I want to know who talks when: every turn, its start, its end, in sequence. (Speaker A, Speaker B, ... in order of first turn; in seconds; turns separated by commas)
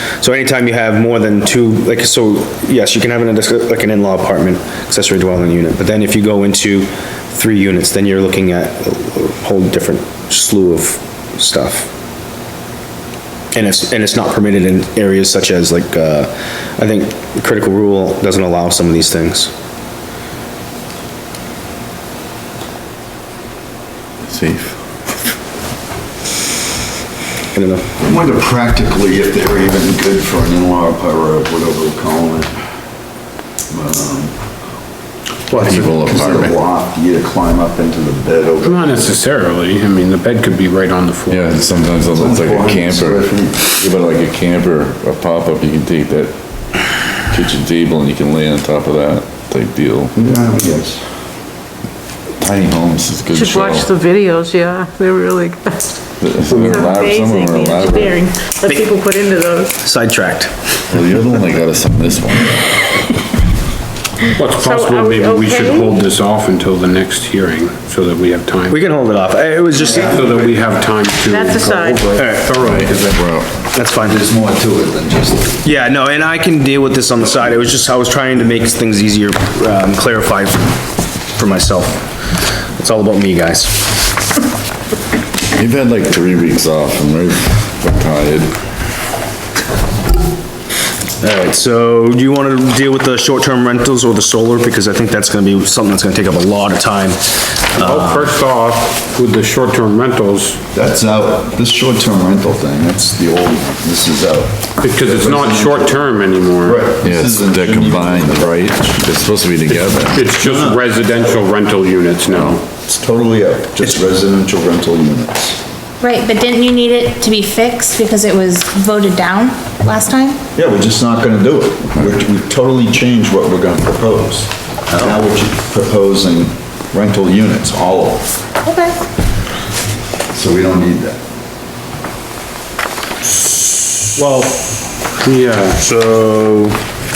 Speaker A: 0.2-11.9, Speaker A: 13.5-19.5, Speaker B: 24.2-24.8, Speaker A: 27.5-27.9, Speaker C: 28.0-32.5, Speaker C: 33.7-34.3, Speaker B: 35.5-36.5, Speaker C: 35.5-39.1, Speaker D: 38.6-41.6, Speaker B: 41.3-46.3, Speaker C: 42.1-43.7, Speaker B: 47.3-50.1, Speaker C: 50.1-51.0, Speaker B: 52.4-53.9, Speaker E: 53.3-55.9, Speaker B: 56.2-58.2, Speaker E: 56.5-59.8, Speaker A: 59.8-60.5, Speaker B: 60.9-62.6, Speaker D: 64.3-68.8, Speaker E: 64.5-66.0, Speaker A: 68.7-70.3, Speaker C: 69.8-70.4, Speaker D: 69.8-73.2, Speaker E: 71.2-72.2, Speaker A: 72.1-72.5, Speaker B: 72.6-73.5, Speaker A: 73.7-74.2, Speaker C: 74.0-75.6, Speaker A: 75.6-80.8, Speaker A: 81.3-82.1, Speaker A: 82.7-84.0, Speaker B: 85.5-88.5, Speaker A: 91.2-98.3, Speaker D: 97.8-100.6, Speaker C: 100.7-106.1, Speaker D: 104.8-106.9, Speaker C: 106.6-109.0, Speaker B: 107.0-110.2, Speaker C: 109.7-110.8, Speaker D: 110.1-112.6, Speaker B: 112.3-112.6, Speaker C: 112.8-115.6, Speaker F: 116.0-120.4, Speaker C: 120.5-128.3, Speaker F: 128.6-128.9, Speaker C: 130.3-131.2, Speaker D: 134.2-135.8, Speaker A: 135.8-136.8